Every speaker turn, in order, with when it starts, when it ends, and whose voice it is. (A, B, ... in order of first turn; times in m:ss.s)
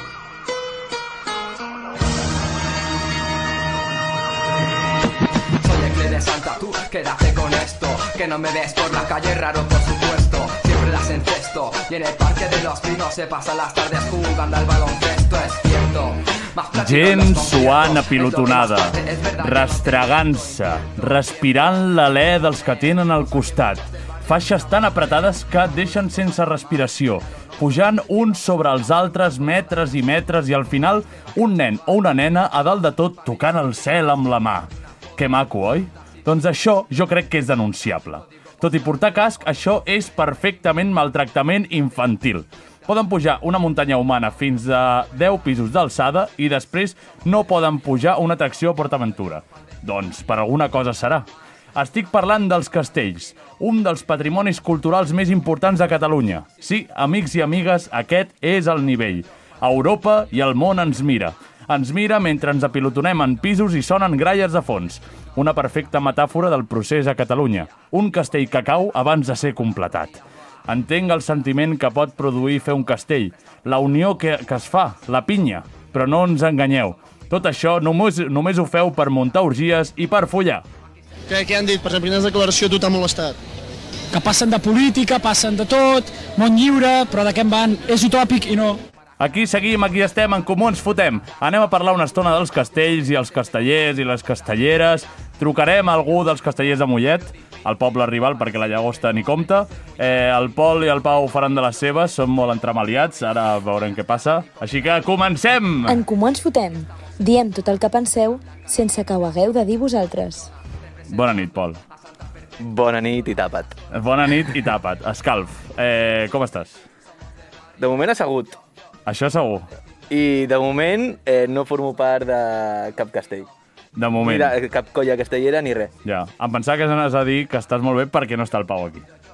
0:05.6-0:20.3 A
0:16.7-1:20.6 B
1:21.3-1:23.4 C
1:24.1-1:28.8 D
1:29.2-1:46.0 B
1:45.8-1:50.5 E
1:51.1-1:51.8 B
1:52.6-1:53.8 F
1:53.9-1:56.8 B
1:57.8-1:58.6 F
1:59.0-1:59.7 B
2:00.1-2:03.5 F
2:03.9-2:04.5 B
2:04.2-2:05.9 F
2:06.0-2:09.0 B